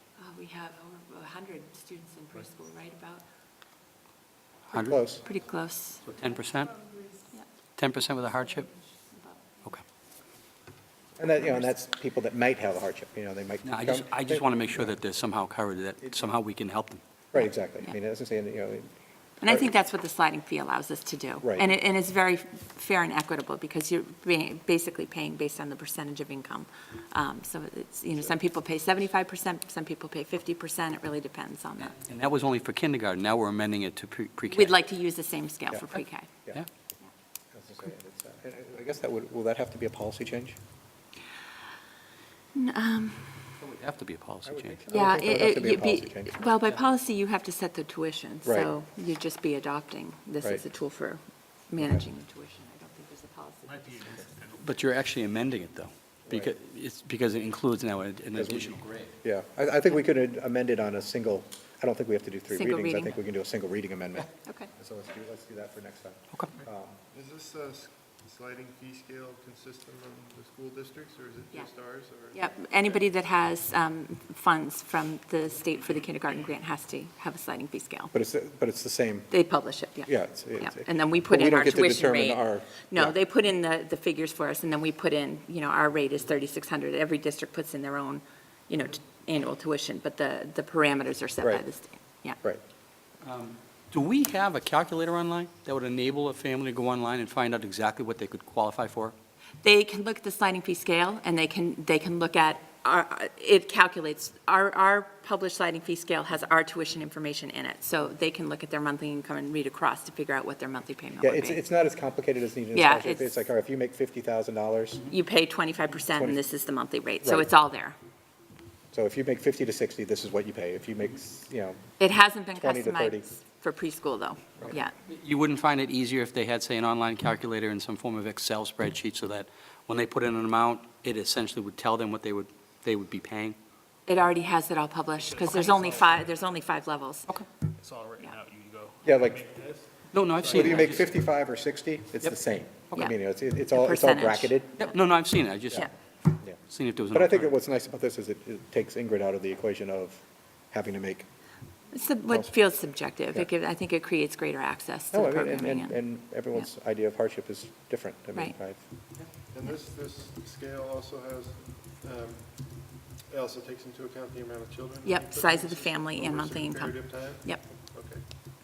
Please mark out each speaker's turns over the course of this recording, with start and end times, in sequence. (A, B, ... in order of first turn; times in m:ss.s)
0:00.2-0:03.2 A
0:04.7-0:05.0 B
0:04.7-0:05.2 C
0:05.2-0:06.0 A
0:06.0-0:06.9 B
0:07.8-0:08.7 B
0:09.0-0:09.6 A
0:11.2-0:14.9 C
0:13.6-0:17.0 B
0:17.3-0:18.9 C
0:19.4-0:32.0 A
0:19.4-0:19.7 C
0:21.4-0:21.7 C
0:32.0-0:34.7 B
0:34.5-0:36.3 A
0:37.5-0:40.6 C
0:42.5-0:43.5 A
0:43.6-0:44.8 B
0:44.4-0:46.4 C
0:44.9-0:54.3 A
0:48.4-0:48.7 C
0:53.7-0:54.6 D
0:54.6-0:59.1 B
0:56.3-0:56.5 C
0:58.4-1:07.0 C
1:02.5-1:03.2 A
1:04.4-1:04.7 A
1:07.1-1:12.5 E
1:12.3-1:18.1 A
1:18.1-1:19.3 C
1:19.3-1:32.4 A
1:20.0-1:23.2 C
1:33.2-1:39.2 B
1:39.6-1:51.6 A
1:51.2-1:55.1 C
1:52.7-1:53.3 A
1:55.1-1:58.0 A
1:56.1-1:56.4 C
1:57.2-1:57.5 C
1:58.9-2:01.8 C
2:02.0-2:04.9 A
2:02.6-2:03.3 C
2:05.1-2:13.6 B
2:14.1-2:17.3 A
2:15.2-2:16.6 D
2:17.8-2:20.5 D
2:19.0-2:19.5 C
2:20.1-2:21.1 B
2:20.4-2:24.8 C
2:23.7-2:24.6 A
2:24.8-2:25.9 B
2:26.5-2:27.5 B
2:27.1-2:31.3 C
2:31.9-2:36.0 A
2:32.3-2:32.6 C
2:35.1-2:38.8 C
2:39.5-2:48.2 E
2:45.0-2:47.6 A